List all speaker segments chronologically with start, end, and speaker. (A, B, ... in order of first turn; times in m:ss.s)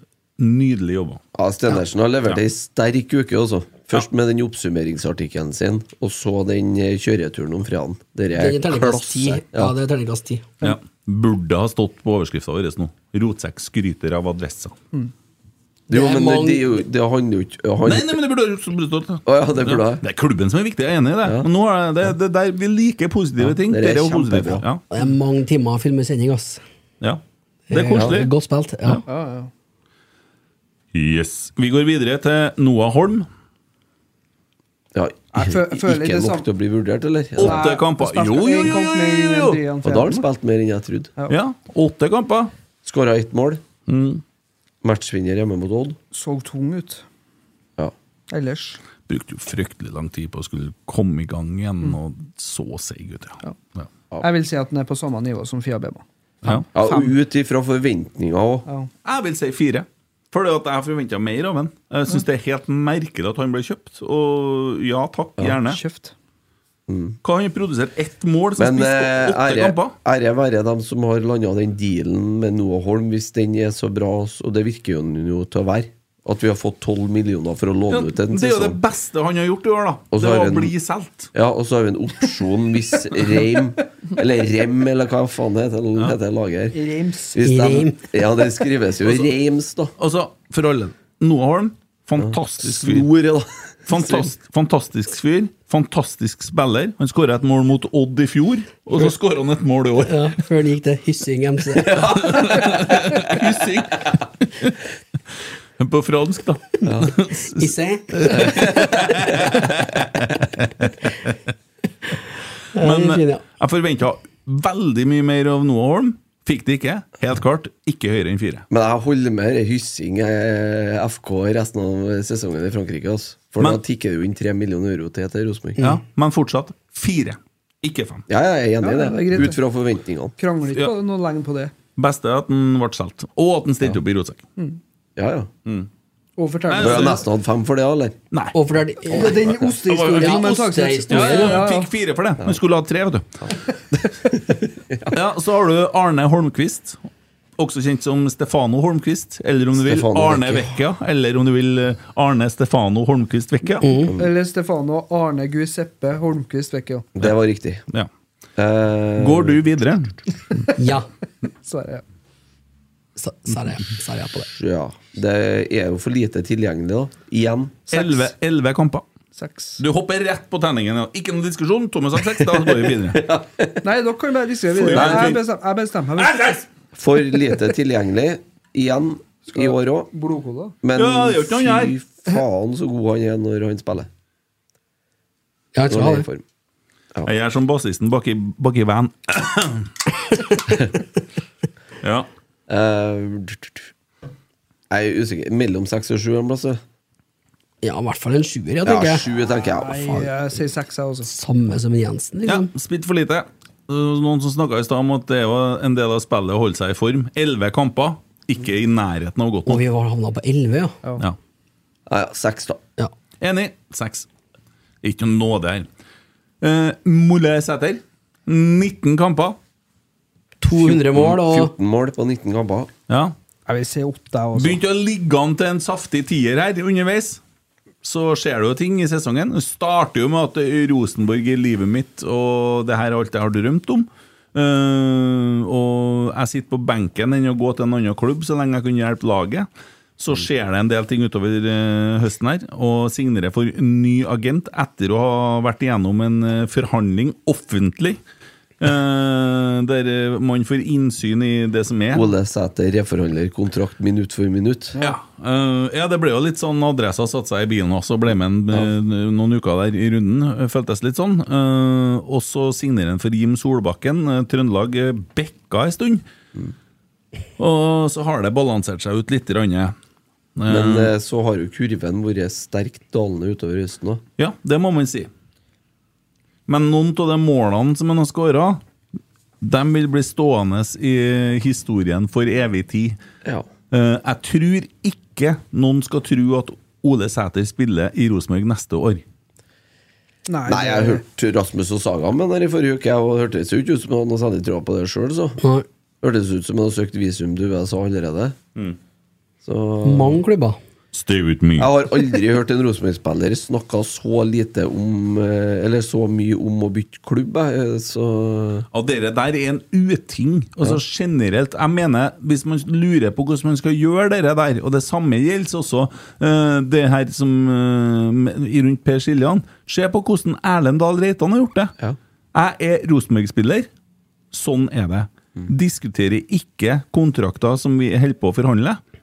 0:00.4-0:01.2 A
0:01.3-0:09.7 B
0:08.4-0:10.5 C
0:10.6-0:14.8 A
0:15.9-0:18.2 B
0:15.9-0:16.8 C
0:17.8-0:24.8 A
0:19.3-0:20.0 B
0:21.2-0:21.5 B
0:23.4-0:24.6 B
0:24.9-0:26.6 C
0:27.0-0:28.3 A
0:27.7-0:29.0 C
0:29.1-0:29.5 D
0:30.9-0:33.3 A
0:34.9-0:37.6 B
0:35.3-0:36.5 D
0:37.4-0:39.6 A
0:37.4-0:40.2 D
0:39.8-0:41.1 B
0:41.3-0:42.5 A
0:42.8-0:43.6 B
0:43.9-0:44.2 A
0:44.8-0:46.0 B
0:46.1-0:47.0 D
0:48.3-0:48.8 D
0:49.1-0:53.9 A
0:54.2-0:57.2 D
0:56.7-0:58.7 B
0:59.0-1:05.8 A
1:05.6-1:06.1 D
1:06.9-1:07.2 B
1:07.2-1:10.0 A
1:08.6-1:18.8 B
1:17.9-1:21.3 A
1:20.1-1:20.7 B
1:21.3-1:26.8 B
1:26.7-1:27.4 D
1:27.3-1:29.9 B
1:27.4-1:28.0 C
1:30.0-1:33.1 A
1:32.2-1:34.3 B
1:33.9-1:40.4 A
1:40.0-1:42.2 C
1:41.9-1:44.8 A
1:41.9-1:42.9 B
1:45.8-1:51.3 A
1:46.8-1:47.1 B
1:47.5-1:49.6 C
1:52.7-1:53.4 C
1:52.8-1:58.6 A
1:58.7-2:05.8 B
2:05.8-2:08.2 A
2:08.3-2:10.4 B
2:08.8-2:09.6 D
2:10.4-2:11.7 D
2:12.0-2:14.4 A
2:15.2-2:15.5 B
2:16.4-2:17.2 D
2:16.7-2:17.2 A
2:16.8-2:18.2 B
2:18.5-2:21.7 C
2:19.1-2:21.9 D
2:19.8-2:23.3 A
2:24.3-2:25.2 B
2:25.1-2:27.0 A
2:27.6-2:33.9 A
2:29.7-2:30.8 B
2:33.8-2:34.2 C
2:34.1-2:34.3 B
2:34.2-2:37.1 D
2:37.2-2:37.8 B
2:38.6-2:39.6 B
2:39.2-2:40.1 A
2:40.8-2:41.1 C
2:41.6-2:42.0 D
2:43.2-2:44.5 C
2:44.5-2:47.8 B
2:47.9-2:48.3 D
2:47.9-2:49.0 A
2:49.4-2:49.8 D
2:49.8-2:53.2 A
2:53.1-2:53.8 B
2:53.8-2:56.6 D
2:54.8-2:55.4 A
2:54.9-2:55.4 B
2:56.2-2:56.6 A
2:57.0-3:00.1 B
2:59.5-3:00.8 D
3:00.8-3:04.1 B
3:01.0-3:02.0 A
3:05.8-3:06.3 C
3:05.9-3:06.4 B
3:07.2-3:09.9 A
3:12.0-3:12.3 A
3:12.7-3:13.8 B
3:14.9-3:16.8 B
3:17.8-3:19.3 C
3:18.8-3:20.3 B
3:19.5-3:21.3 D
3:21.2-3:22.7 C
3:22.5-3:29.8 A
3:29.7-3:31.0 C
3:32.1-3:32.8 B
3:33.4-3:34.3 A
3:35.0-3:35.9 A
3:36.6-3:39.6 A
3:40.6-3:41.7 C
3:40.7-3:42.9 B
3:43.1-3:43.4 A
3:43.7-3:44.8 D
3:44.6-3:47.4 A
3:48.0-4:08.2 A
4:08.8-4:12.3 A
4:12.1-4:15.0 B
4:15.0-4:26.2 A
4:27.6-4:30.0 A
4:30.6-4:31.1 A
4:30.7-4:34.2 B
4:34.4-4:35.3 A
4:36.7-4:38.8 A
4:39.6-4:43.2 A
4:43.9-4:49.2 A
4:50.5-4:51.2 D
4:50.7-4:55.6 B
4:55.6-4:55.9 C
4:56.2-4:58.6 B
4:59.6-5:00.4 B
5:00.0-5:00.8 C
5:01.1-5:01.9 A
5:01.8-5:08.9 B
5:08.9-5:21.9 A
5:22.5-5:23.9 A
5:24.5-5:29.0 A